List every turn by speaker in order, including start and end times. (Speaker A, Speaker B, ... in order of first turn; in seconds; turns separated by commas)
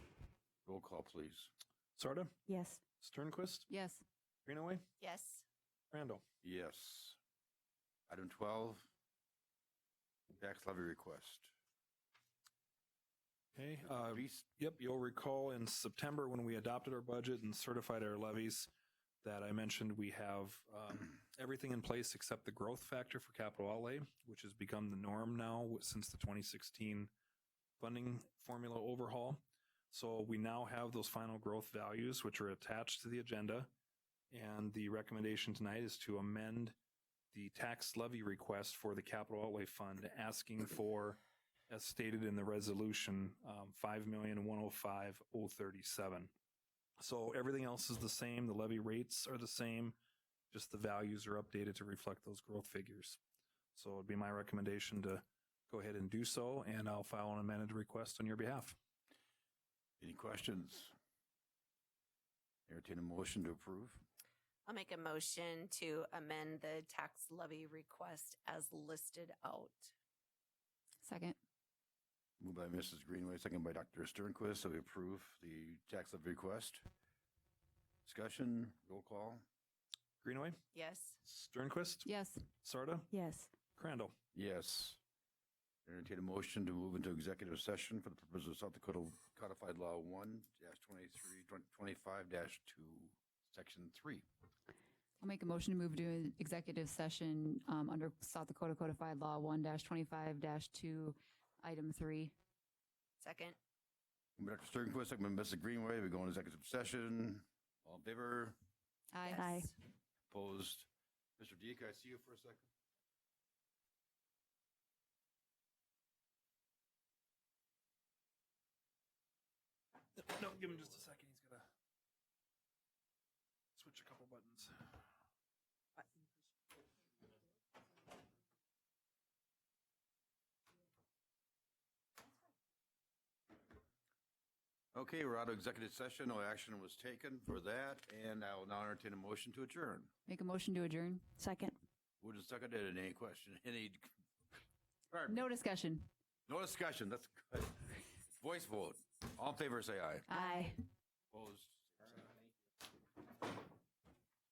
Speaker A: 0.7-1.5, Speaker B: 2.0-2.4, Speaker C: 2.5-2.8, Speaker B: 3.0-3.7, Speaker D: 3.7-4.0, Speaker B: 4.5-4.9, Speaker E: 5.0-5.5, Speaker B: 5.9-6.2, Speaker A: 6.4-7.2, Speaker A: 8.1-8.9, Speaker A: 10.4-11.5, Speaker B: 13.6-18.7, Speaker A: 13.8-14.5, Speaker B: 19.2-27.1, Speaker B: 27.8-33.7, Speaker B: 34.3-36.8, Speaker B: 37.3-46.3, Speaker B: 47.0-50.0, Speaker B: 50.5-53.2, Speaker B: 53.8-58.8, Speaker A: 60.0-61.0, Speaker A: 62.7-64.0, Speaker E: 64.7-69.9, Speaker D: 71.0-71.4, Speaker A: 72.4-76.8, Speaker A: 78.0-79.4, Speaker B: 80.2-80.6, Speaker E: 80.7-81.2, Speaker B: 81.2-84.2, Speaker D: 82.0-82.5, Speaker C: 83.1-83.5, Speaker A: 84.3-85.0, Speaker A: 85.9-94.2, Speaker D: 95.2-102.3, Speaker E: 103.2-103.6, Speaker A: 104.4-108.6, Speaker D: 109.1-109.7, Speaker E: 109.2-109.6, Speaker C: 109.3-109.7, Speaker A: 110.3-112.7, Speaker B: 120.2-121.7, Speaker B: 123.8-124.8, Speaker A: 134.9-140.1, Speaker D: 140.3-141.3, Speaker C: 141.4-141.8, Speaker A: 142.2-144.1, Speaker A: 145.1-145.4, Speaker D: 145.3-146.1, Speaker A: 146.5-150.3, Speaker D: 150.3-150.8, Speaker C: 150.3-150.8, Speaker A: 151.3-152.3